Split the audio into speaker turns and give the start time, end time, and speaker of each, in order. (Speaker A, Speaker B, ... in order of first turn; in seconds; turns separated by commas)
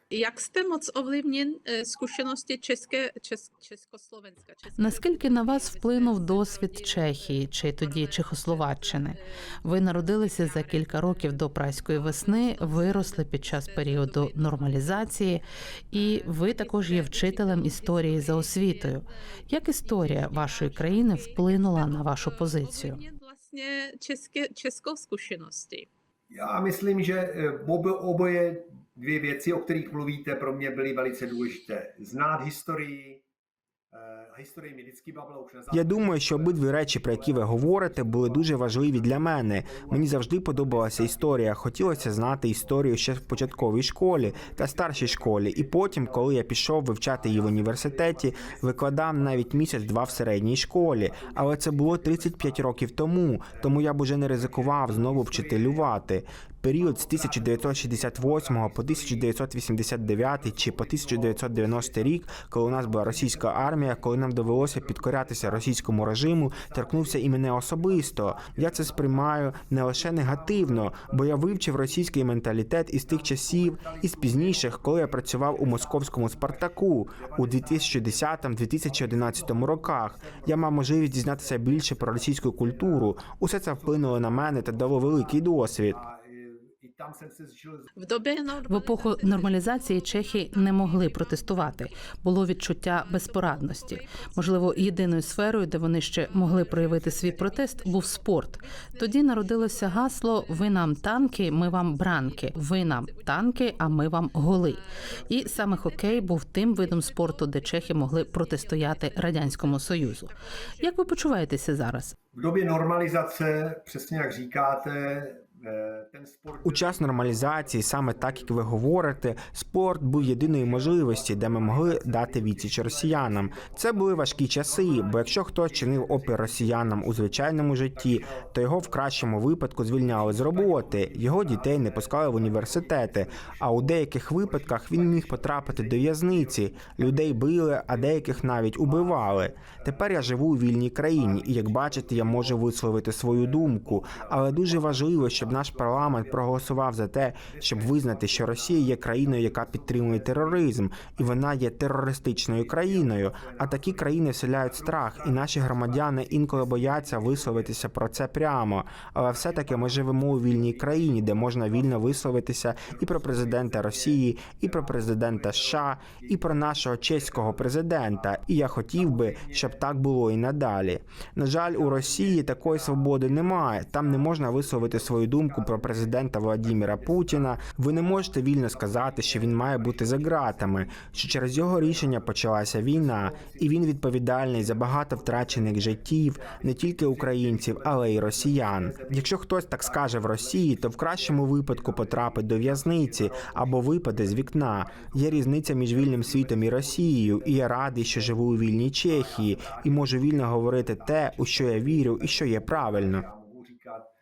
Speaker A: 0.1-15.3, Speaker B: 4.8-23.0, Speaker A: 15.9-25.9, Speaker C: 26.3-33.2, Speaker C: 33.9-46.4, Speaker D: 35.7-86.0, Speaker C: 47.0-52.8, Speaker C: 53.5-56.0, Speaker C: 56.8-59.4, Speaker C: 60.0-72.1, Speaker C: 73.1-87.9, Speaker A: 88.0-92.0, Speaker B: 88.7-112.2, Speaker A: 92.9-95.3, Speaker A: 96.2-111.3, Speaker C: 112.3-119.3, Speaker D: 116.6-203.2, Speaker C: 120.1-129.1, Speaker C: 130.0-140.5, Speaker C: 141.1-142.7, Speaker C: 143.3-146.7, Speaker C: 147.5-151.7, Speaker C: 152.3-157.9, Speaker C: 159.2-162.3, Speaker C: 162.8-170.0, Speaker C: 171.7-184.0, Speaker C: 184.5-204.1